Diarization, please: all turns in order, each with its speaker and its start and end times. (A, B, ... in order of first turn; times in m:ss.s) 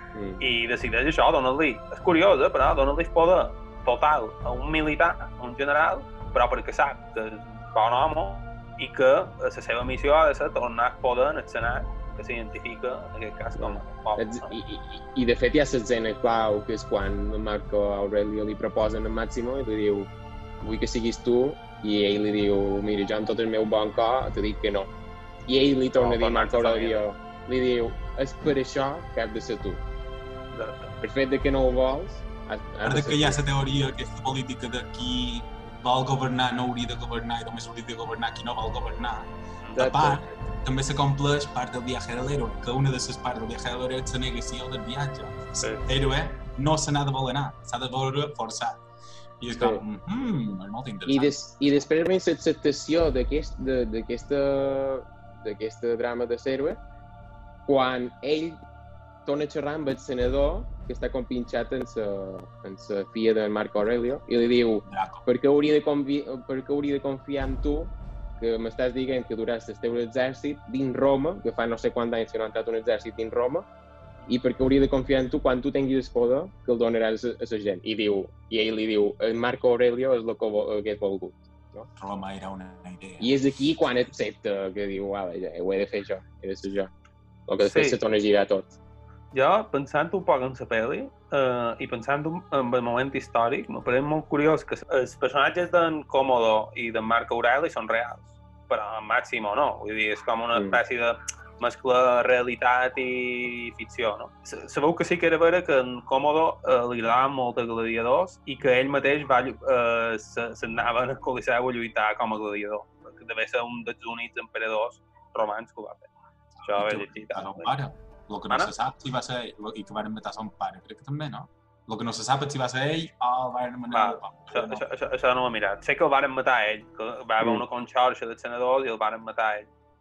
0:00.2-0:00.4 A
0:00.4-0:14.6 B
0:13.6-0:24.9 A
0:25.5-0:29.8 A
0:26.0-0:27.0 B
0:30.5-0:30.9 B
0:31.0-0:33.4 A
0:32.8-0:48.8 C
0:39.6-0:39.9 B
0:39.8-0:40.3 A
0:49.4-0:51.9 C
0:51.1-0:56.8 A
0:57.7-0:58.6 A
0:59.2-1:13.7 A
1:04.9-1:05.3 C
1:14.3-1:21.9 A
1:22.0-1:23.4 C
1:23.2-1:26.9 A
1:27.5-1:28.8 A
1:27.6-1:28.0 B
1:29.3-1:56.1 B
1:40.5-1:40.8 A
1:56.6-1:57.7 B
1:56.7-2:04.9 C
2:03.9-2:09.7 B